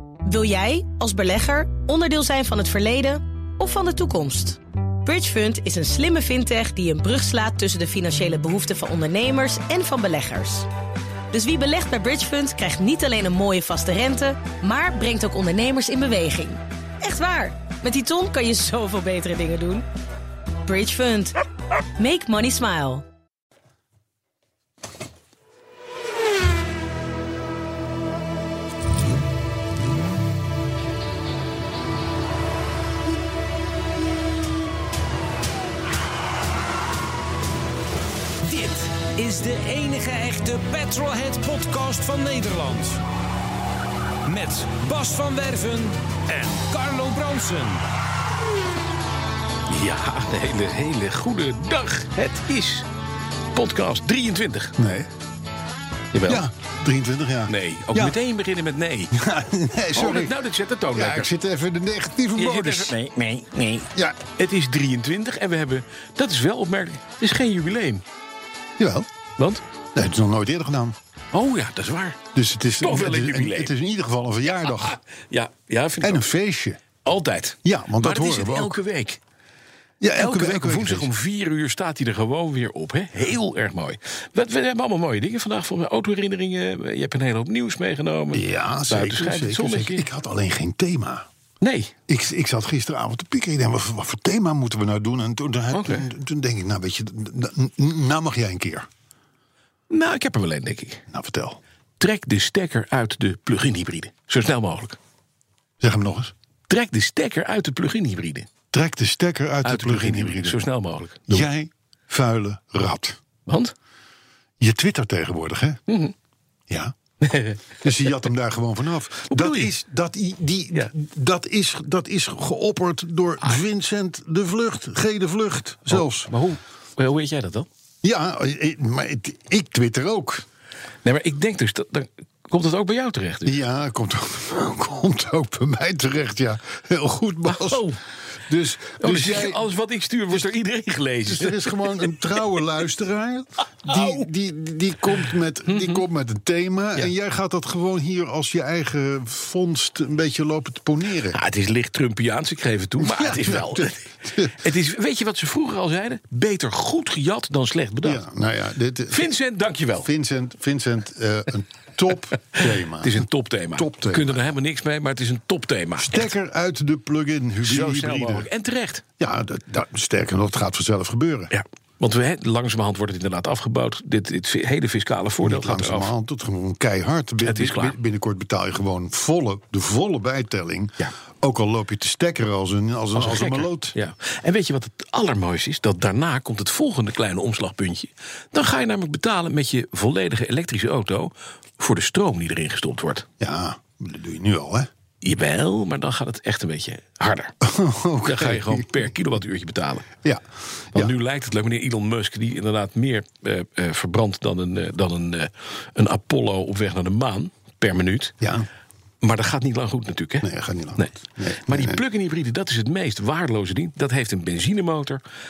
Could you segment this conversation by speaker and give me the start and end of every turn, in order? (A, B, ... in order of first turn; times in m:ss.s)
0:00.2-0:10.7 A
0:11.3-0:19.8 A
0:20.6-0:21.4 A
0:22.0-0:23.0 A
0:38.4-0:43.0 B
0:44.2-0:47.8 B
0:49.7-0:52.9 C
0:53.5-0:54.7 C
0:54.8-0:55.1 D
0:56.1-0:56.4 C
0:56.3-0:58.2 D
0:57.5-0:59.1 C
0:59.1-1:00.4 D
1:00.0-1:01.3 C
1:00.9-1:03.0 D
1:02.4-1:08.0 C
1:03.9-1:04.2 D
1:08.8-1:09.1 D
1:10.0-1:11.0 D
1:11.3-1:12.2 C
1:12.3-1:15.0 D
1:12.8-1:13.7 C
1:14.6-1:16.2 C
1:16.0-1:16.8 D
1:17.0-1:19.2 C
1:17.6-1:18.7 D
1:20.0-1:21.1 D
1:20.2-1:30.0 C
1:28.3-1:31.3 D
1:31.6-1:31.9 C
1:32.1-1:38.9 D
1:35.7-1:36.1 C
1:39.9-1:41.0 C
1:41.1-1:41.6 D
1:42.0-1:45.0 C
1:45.8-1:46.3 D
1:46.7-1:48.5 C
1:48.7-1:50.6 D
1:49.6-1:51.5 C
1:51.3-1:53.2 D
1:53.5-1:53.7 C
1:54.6-1:55.8 D
1:55.9-1:56.1 C
1:56.7-1:57.0 D
1:57.2-1:57.8 C
1:57.8-2:06.3 D
1:59.3-1:59.7 C
2:05.9-2:07.7 C
2:08.0-2:10.4 D
2:11.0-2:13.6 C
2:13.4-2:17.9 D
2:17.5-2:18.0 C
2:18.5-2:19.7 D
2:19.0-2:22.3 C
2:21.3-2:31.4 D
2:23.9-2:24.2 C
2:25.7-2:26.0 C
2:31.3-2:38.2 C
2:33.0-2:34.6 D
2:38.0-2:39.3 D
2:39.1-2:40.1 C
2:40.0-2:44.4 D
2:43.0-2:46.3 C
2:46.0-2:48.5 D
2:47.6-2:49.0 C
2:49.2-2:51.5 D
2:51.5-2:56.1 C
2:55.4-3:04.0 D
2:57.4-2:58.0 C
3:03.1-3:13.3 C
3:13.4-3:14.9 D
3:15.2-3:17.5 C
3:17.6-3:19.1 D
3:18.2-3:20.1 C
3:20.2-3:21.1 D
3:20.9-3:28.4 C
3:28.4-3:28.7 D
3:29.2-3:31.1 C
3:30.4-3:32.0 D
3:31.7-3:35.2 C